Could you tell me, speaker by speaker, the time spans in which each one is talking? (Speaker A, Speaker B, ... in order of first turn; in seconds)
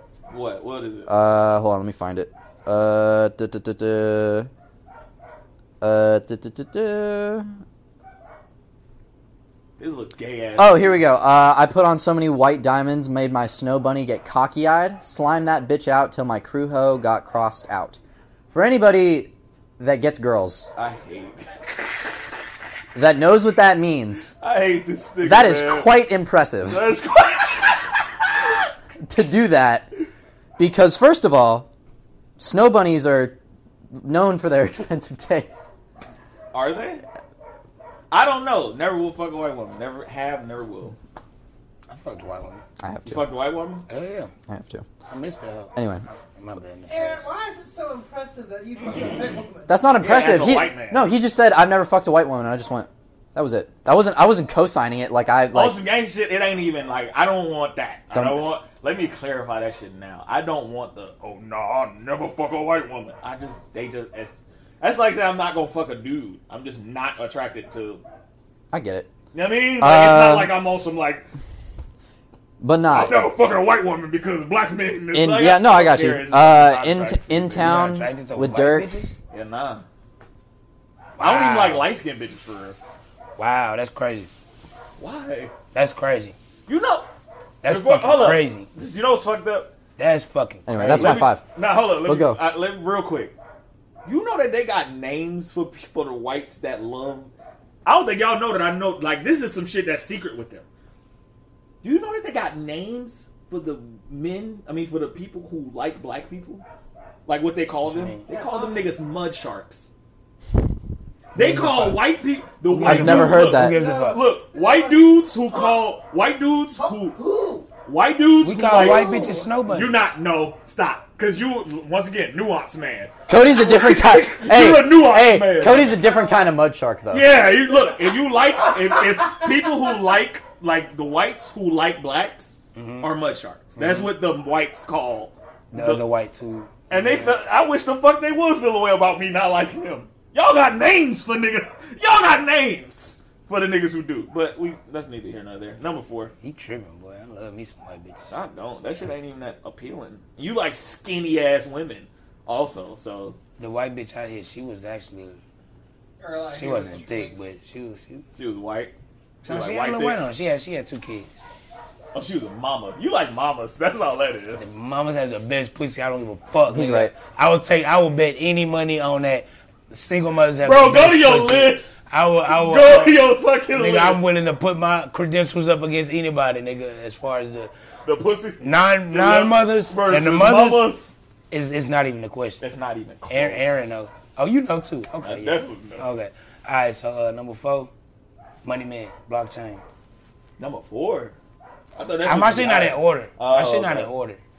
Speaker A: 0.3-1.1, 9.8-11.1, 20.8-21.5, 24.4-26.1, 26.6-28.0, 36.5-37.0, 38.1-41.0, 43.0-43.8, 50.0-51.1, 55.5-68.0, 69.3-71.3, 72.9-77.9, 79.3-79.8, 81.2-82.8, 85.0-85.5, 86.7-87.1, 87.6-89.7, 90.7-93.3, 94.0-97.3, 97.8-100.6, 101.8-106.6, 107.2-109.9, 111.3-117.2, 117.8-126.0, 127.1-136.0, 136.9-146.3, 148.3-153.4, 158.3-160.2, 162.1-164.7, 170.6-174.2, 178.0-181.1, 182.6-183.7, 185.2-186.1, 190.6-191.3, 191.9-194.1
Speaker B: 1.1-4.5, 5.8-7.6, 10.6-18.0, 18.5-20.7, 22.9-24.3, 25.2-26.9, 29.0-29.9, 30.6-31.7, 32.4-33.4, 33.9-35.7, 42.8-43.3, 44.5-44.8, 45.7-46.0, 49.7-55.8, 58.1-58.4, 68.7-69.1, 69.8-70.5, 72.6-73.2, 75.1-78.9, 90.7-91.4, 92.0-92.4, 112.8-113.8, 123.3-127.3, 166.7-167.1
Speaker C: 41.9-42.6, 43.9-44.3, 45.1-47.3, 77.6-79.1, 81.1-81.9, 83.4-84.3, 85.7-86.3, 87.6-88.7, 90.0-91.2, 107.8-108.2, 111.3-112.1, 112.6-114.2, 118.4-120.0, 132.7-133.1, 133.8-134.1, 135.7-137.4, 146.4-148.3, 153.6-155.4, 156.5-158.2, 159.4-161.4, 164.6-173.2, 173.7-177.7, 178.6-180.9, 181.5-182.6, 183.3-187.9, 188.6-189.8, 192.2-194.4
Speaker D: 46.9-49.7, 108.3-108.9, 113.6-115.8, 116.8-117.7, 118.8-119.5, 125.7-126.4, 128.8-129.7, 156.2-157.4